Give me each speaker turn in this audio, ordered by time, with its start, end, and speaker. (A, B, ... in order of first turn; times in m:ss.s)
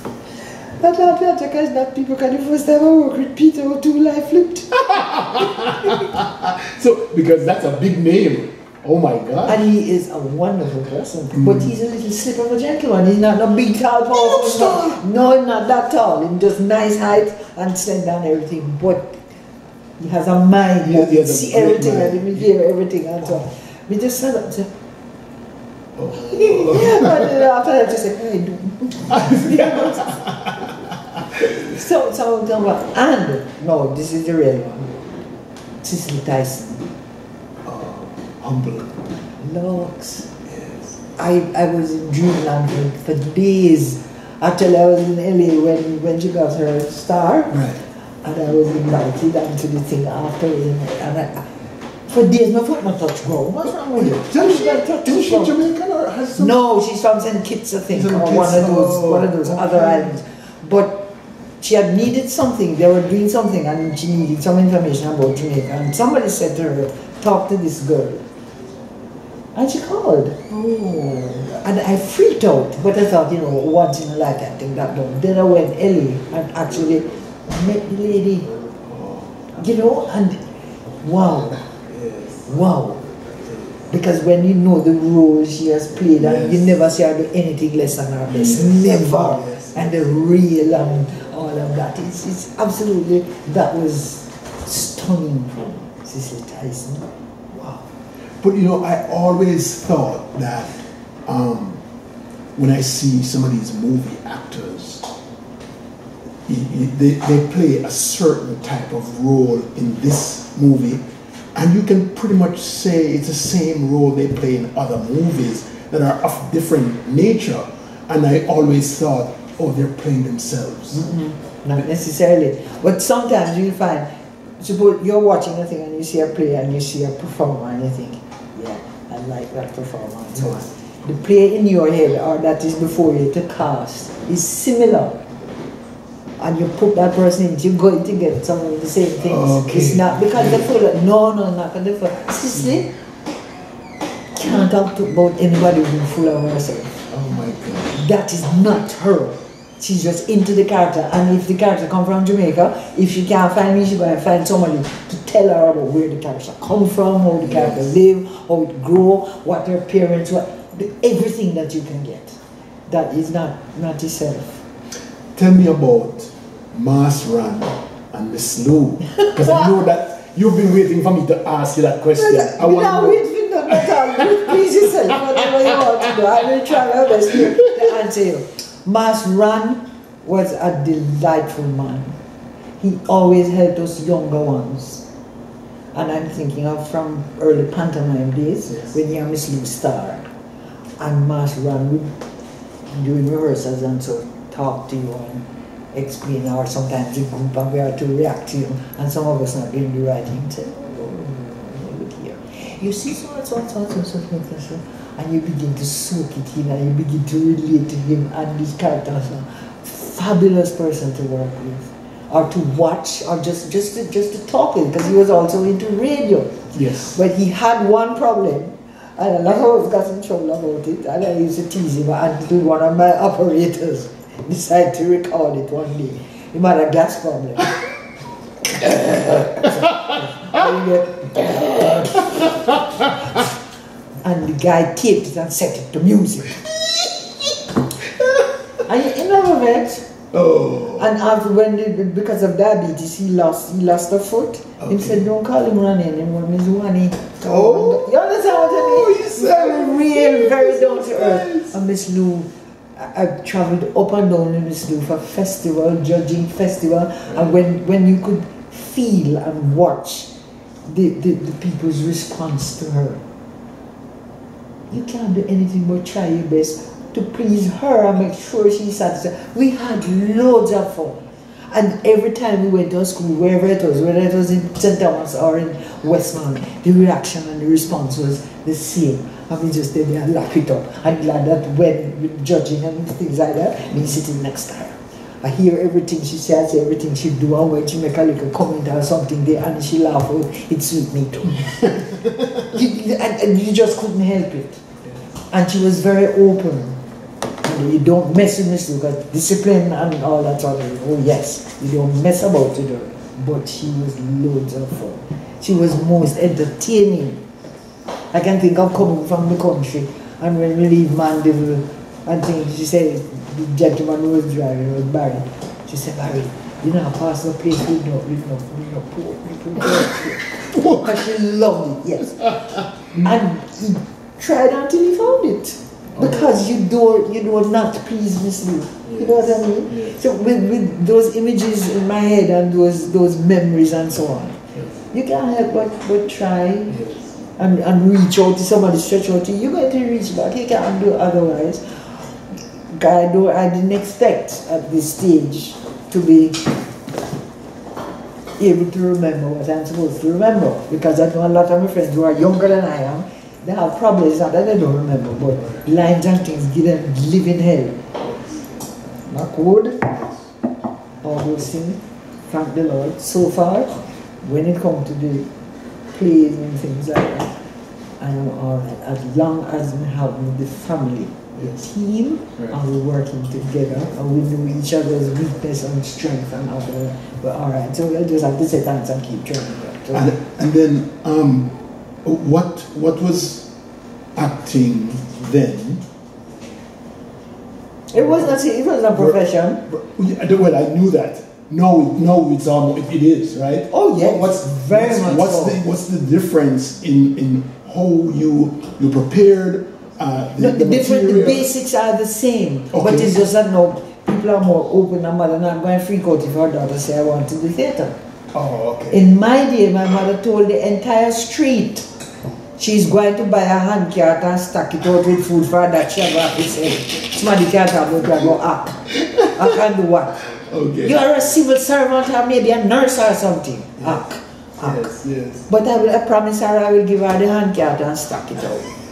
0:00.8-0:06.1 A
0:04.8-0:09.6 B
0:09.4-0:19.2 A
0:11.4-0:11.7 B
0:14.1-0:15.0 B
0:20.0-0:24.7 A
0:20.8-0:22.5 B
0:25.9-0:27.4 B
0:26.1-0:30.2 A
0:29.1-0:31.6 B
0:31.5-0:34.9 A
0:35.8-0:36.9 A
0:37.6-0:39.0 B
0:39.4-0:40.3 A
0:40.4-0:41.0 B
0:41.2-0:51.5 A
0:47.5-0:47.8 B
0:52.1-0:55.5 A
0:54.0-0:56.6 B
0:56.4-1:08.2 A
0:57.9-1:00.1 B
1:09.6-1:10.4 A
1:10.5-1:11.5 B
1:11.4-1:18.5 A
1:18.5-1:19.5 B
1:19.5-1:20.4 A
1:21.0-1:21.6 A
1:21.8-1:22.5 B
1:22.5-1:23.0 A
1:23.1-1:23.9 B
1:23.9-1:37.9 A
1:26.1-1:26.8 B
1:28.3-1:30.4 B
1:38.4-1:41.8 B
1:42.6-1:45.1 B
1:46.4-2:01.1 B
2:00.9-2:04.1 A
2:04.6-2:15.2 A
2:16.4-2:22.9 A
2:19.2-2:20.7 B
2:22.5-2:22.8 B
2:24.4-2:27.1 A
2:27.1-2:28.0 B
2:27.9-2:44.6 A
2:37.4-2:37.9 B
2:45.4-2:55.8 B
2:52.2-3:02.2 A
3:02.8-3:05.1 A
3:05.9-3:10.3 A
3:11.0-3:12.2 A
3:12.9-3:47.8 A
3:36.7-3:37.2 B
3:48.6-3:52.5 A
3:51.4-3:53.4 B
3:54.2-3:57.6 A
3:58.1-3:58.5 B
3:58.8-4:00.1 A
4:00.3-4:01.1 B
4:01.0-4:20.3 A
4:04.8-4:05.2 B
4:07.4-4:11.7 B
4:20.9-4:23.2 A
4:24.9-4:31.2 A
4:31.7-4:51.9 A
4:51.6-4:52.7 B
4:52.6-4:54.8 A
4:55.5-4:57.0 A
4:57.6-5:07.4 A
5:08.3-5:22.6 A
5:20.6-5:21.1 B
5:22.4-5:23.3 B
5:23.1-5:34.6 A
5:26.1-5:26.6 B
5:29.0-5:30.2 B
5:35.1-5:37.0 A
5:36.9-5:37.5 B
5:37.6-5:46.7 A
5:48.6-5:58.0 A
5:58.2-5:58.7 B
5:59.2-6:00.2 A
6:01.2-6:05.5 A
6:06.1-6:07.6 A
6:08.2-6:20.3 A
6:11.6-6:11.8 B
6:20.1-6:23.7 B
6:24.3-6:26.0 B
6:28.1-6:29.8 A
6:28.2-6:28.6 B
6:29.1-6:41.7 B
6:33.9-6:35.8 A
6:40.6-6:48.1 A
6:42.9-6:43.4 B
6:48.5-6:49.2 B
6:49.1-6:52.1 A
6:52.8-7:00.5 A
6:58.2-6:58.6 B
6:59.1-6:59.6 B
7:00.5-7:01.2 B
7:01.0-7:05.0 A
7:04.8-7:05.7 B
7:05.7-7:08.9 A